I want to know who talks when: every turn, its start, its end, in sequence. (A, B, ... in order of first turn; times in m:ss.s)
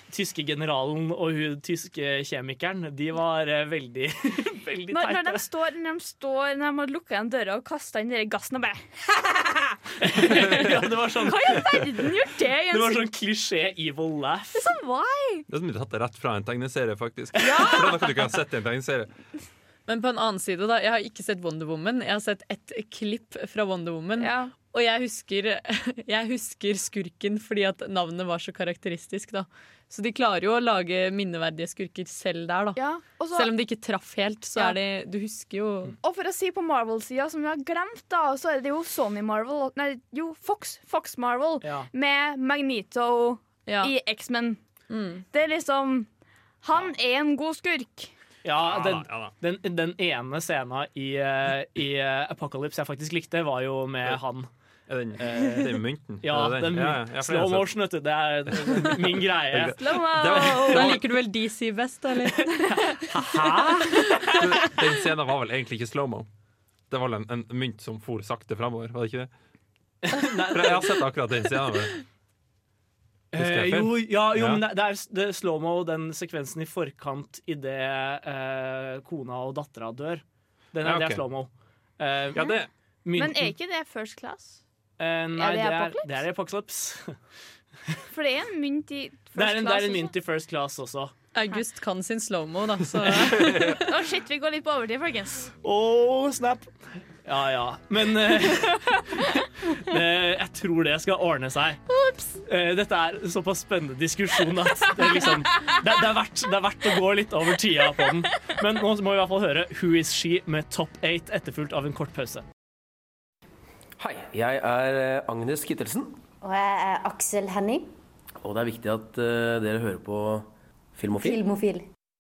0:00.1-0:05.4 A
0:04.9-0:09.8 B
0:10.0-0:11.8 A
0:11.2-0:13.1 B
0:12.7-0:14.7 A
0:14.5-0:15.5 B
0:15.5-0:19.1 C
0:17.4-0:18.0 B
0:19.9-0:32.8 D
0:24.2-0:24.5 B
0:32.8-0:33.5 B
0:33.3-0:35.9 D
0:36.0-0:44.6 B
0:41.6-0:41.9 A
0:43.6-0:43.9 D
0:44.9-0:45.2 D
0:45.3-0:46.1 B
0:46.6-0:48.1 B
0:48.4-0:54.5 A
0:48.7-0:49.3 C
0:54.9-0:57.8 C
0:55.2-0:59.8 A
0:58.5-1:01.0 C
0:59.7-1:01.0 B
1:00.6-1:02.7 D
1:02.5-1:04.0 A
1:04.4-1:06.3 C
1:06.9-1:09.3 C
1:10.0-1:10.9 A
1:10.5-1:12.0 C
1:13.3-1:22.4 A
1:13.4-1:14.6 C
1:20.8-1:21.2 C
1:22.3-1:22.7 C
1:23.0-1:23.5 A
1:23.1-1:24.6 B
1:25.0-1:27.2 A
1:25.3-1:26.2 B
1:28.1-1:30.1 B
1:29.3-1:31.1 A
1:31.3-1:33.8 D
1:33.1-1:33.8 C
1:33.8-1:35.5 B
1:35.6-1:36.7 A
1:37.2-1:41.8 A
1:41.9-1:42.4 B
1:42.4-1:52.4 A
1:54.0-1:56.2 E
1:56.4-1:57.8 F
1:58.4-2:01.4 E
2:01.2-2:01.8 F